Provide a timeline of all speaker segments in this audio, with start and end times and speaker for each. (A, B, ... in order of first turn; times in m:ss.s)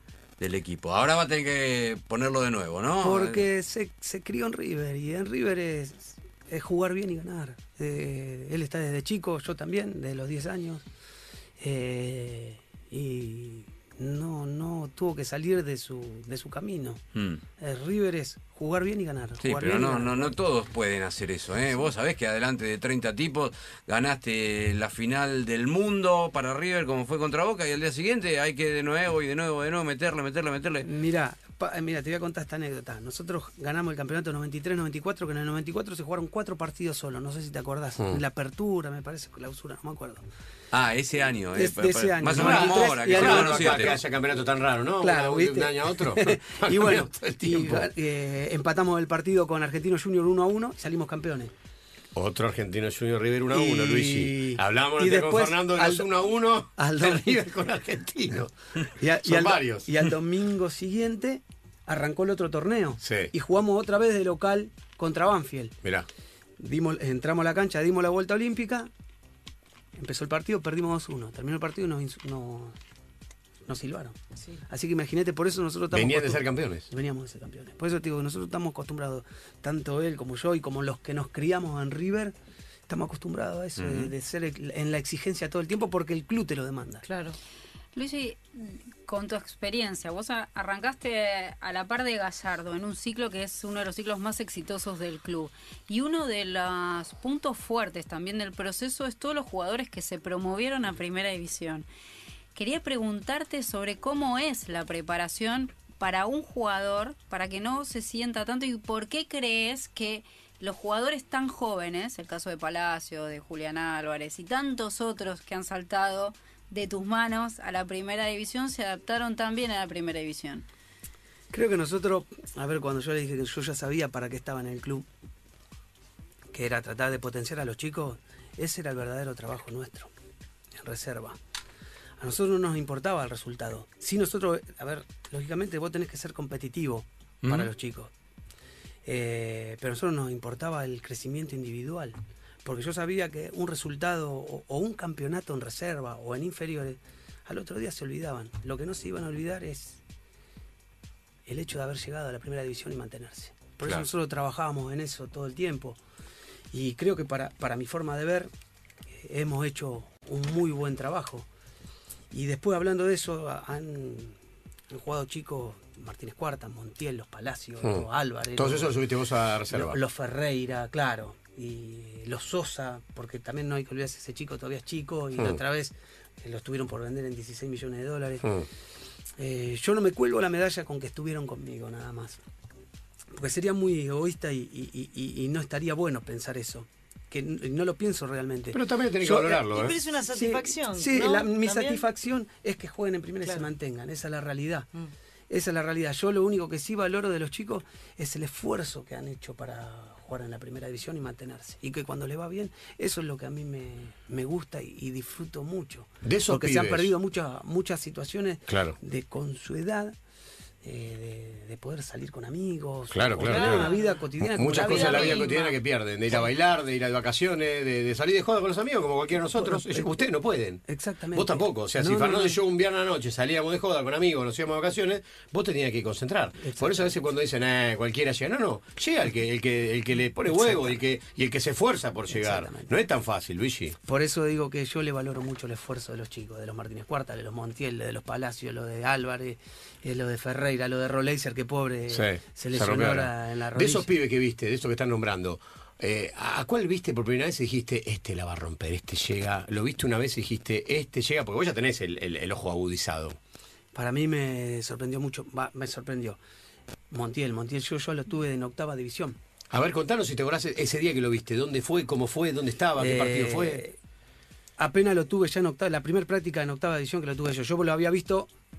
0:00.4-0:03.4 A
0:03.0-0:10.8 B
0:11.6-0:17.0 B
0:17.1-0:17.4 A
0:17.6-0:20.4 B
0:19.4-0:30.9 A
0:30.8-0:40.2 B
0:40.7-0:44.0 A
0:41.5-0:44.0 B
0:42.3-0:47.9 C
0:45.0-0:51.5 B
0:52.1-0:58.5 C
0:53.5-0:56.1 B
0:56.8-0:57.5 B
0:59.0-1:05.8 B
0:59.2-0:59.9 C
1:03.0-1:03.3 C
1:06.6-1:08.9 B
1:10.0-1:12.8 B
1:13.7-1:22.3 B
1:15.9-1:16.9 C
1:22.9-1:27.0 B
1:23.8-1:24.1 A
1:27.0-1:27.4 D
1:27.9-1:41.8 E
1:42.5-2:00.6 E
2:01.5-2:05.1 B
2:06.5-2:10.1 B
2:10.8-2:11.4 B
2:12.2-2:18.1 B
2:17.4-2:17.7 A
2:19.0-2:30.0 B
2:31.4-2:36.0 B
2:33.8-2:34.1 A
2:36.7-2:38.5 B
2:39.2-2:41.5 B
2:42.3-2:44.4 B
2:44.9-2:49.0 B
2:47.8-2:50.0 C
2:49.7-2:58.5 B
2:59.4-3:02.4 B
3:03.3-3:09.6 B
3:08.7-3:10.0 C
3:09.6-3:12.0 D
3:10.3-3:14.9 B
3:15.5-3:30.2 B
3:26.2-3:27.1 C
3:28.7-3:29.0 C
3:30.8-3:35.6 B
3:33.1-3:40.8 C
3:33.4-3:35.8 D
3:39.5-3:40.2 B
3:40.9-3:42.6 B
3:41.3-3:54.0 C
3:46.6-3:47.1 B
3:50.5-3:51.0 B
3:52.3-3:52.9 B
3:54.1-4:04.1 B
4:02.1-4:13.4 C
4:13.9-4:16.4 B
4:17.1-4:19.4 B
4:19.7-4:23.8 C
4:23.0-4:24.0 B
4:24.8-4:28.5 B